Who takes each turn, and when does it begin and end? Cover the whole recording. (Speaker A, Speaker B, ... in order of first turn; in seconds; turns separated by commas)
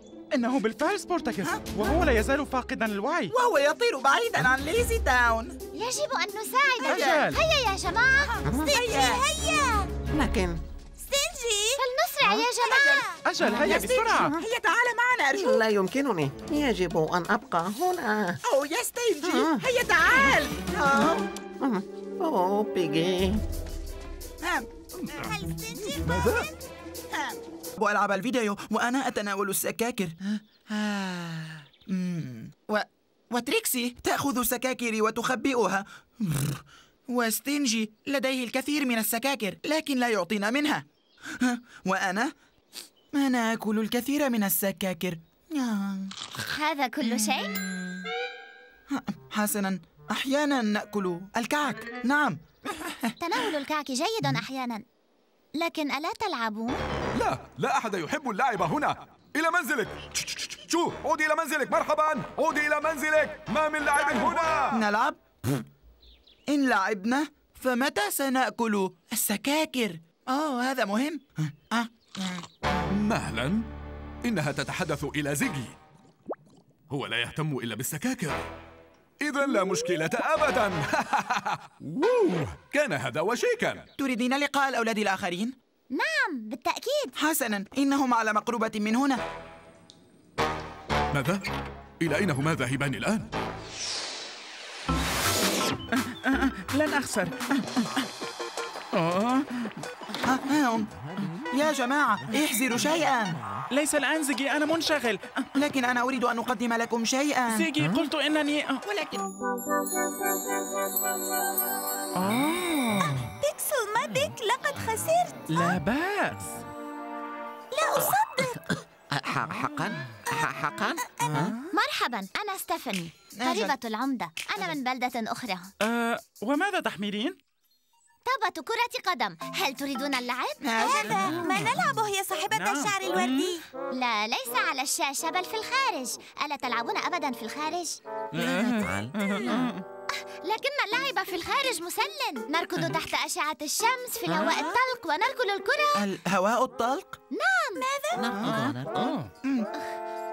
Speaker A: 0.3-3.3, Speaker B: 3.3-5.6, Speaker C: 5.7-8.3, Speaker B: 6.9-7.3, Speaker A: 6.9-7.4, Speaker D: 8.4-9.9, Speaker E: 8.4-8.7, Speaker B: 8.7-9.2, Speaker E: 10.1-10.6, Speaker D: 11.0-11.8, Speaker C: 11.8-13.0, Speaker D: 12.6-13.0, Speaker B: 12.7-13.0, Speaker A: 13.2-14.3, Speaker E: 13.5-14.3, Speaker B: 13.5-15.6, Speaker E: 15.3-18.4, Speaker B: 18.4-21.2, Speaker E: 19.2-20.4, Speaker E: 20.9-23.4, Speaker B: 24.4-24.7, Speaker F: 25.0-25.4, Speaker D: 25.1-26.5, Speaker F: 25.9-26.5, Speaker B: 27.1-40.8, Speaker B: 41.4-42.3, Speaker B: 43.1-46.1, Speaker C: 46.4-47.5, Speaker B: 47.0-48.0, Speaker B: 48.9-53.1, Speaker C: 53.2-54.8, Speaker C: 55.6-56.8, Speaker F: 57.1-64.8, Speaker B: 64.0-65.2, Speaker B: 66.5-72.5, Speaker F: 72.9-73.7, Speaker F: 74.2-75.7, Speaker F: 76.9-78.4, Speaker F: 79.2-83.9, Speaker B: 84.0-85.5, Speaker C: 85.9-87.1, Speaker B: 87.2-89.2, Speaker F: 91.1-91.4, Speaker F: 92.0-93.3, Speaker A: 96.0-98.0, Speaker A: 98.9-99.7, Speaker B: 100.2-103.4, Speaker A: 103.7-105.5, Speaker B: 105.5-107.7, Speaker A: 107.5-108.8, Speaker B: 108.8-109.2, Speaker A: 112.1-113.3, Speaker D: 113.4-115.5, Speaker A: 115.5-116.6, Speaker D: 117.7-118.7, Speaker E: 118.0-118.6, Speaker E: 119.1-121.5, Speaker C: 121.7-125.7, Speaker B: 123.3-123.7, Speaker A: 125.8-127.4, Speaker C: 128.2-130.7, Speaker B: 130.6-131.4, Speaker D: 130.8-133.6, Speaker A: 131.3-131.8, Speaker A: 132.5-133.5, Speaker C: 133.9-138.0, Speaker E: 138.3-139.7, Speaker A: 138.3-139.8, Speaker C: 140.1-146.0, Speaker E: 144.3-144.5, Speaker B: 146.0-147.2, Speaker C: 147.3-147.8, Speaker D: 147.8-148.3, Speaker E: 148.1-149.2, Speaker A: 148.4-149.3, Speaker B: 149.4-149.7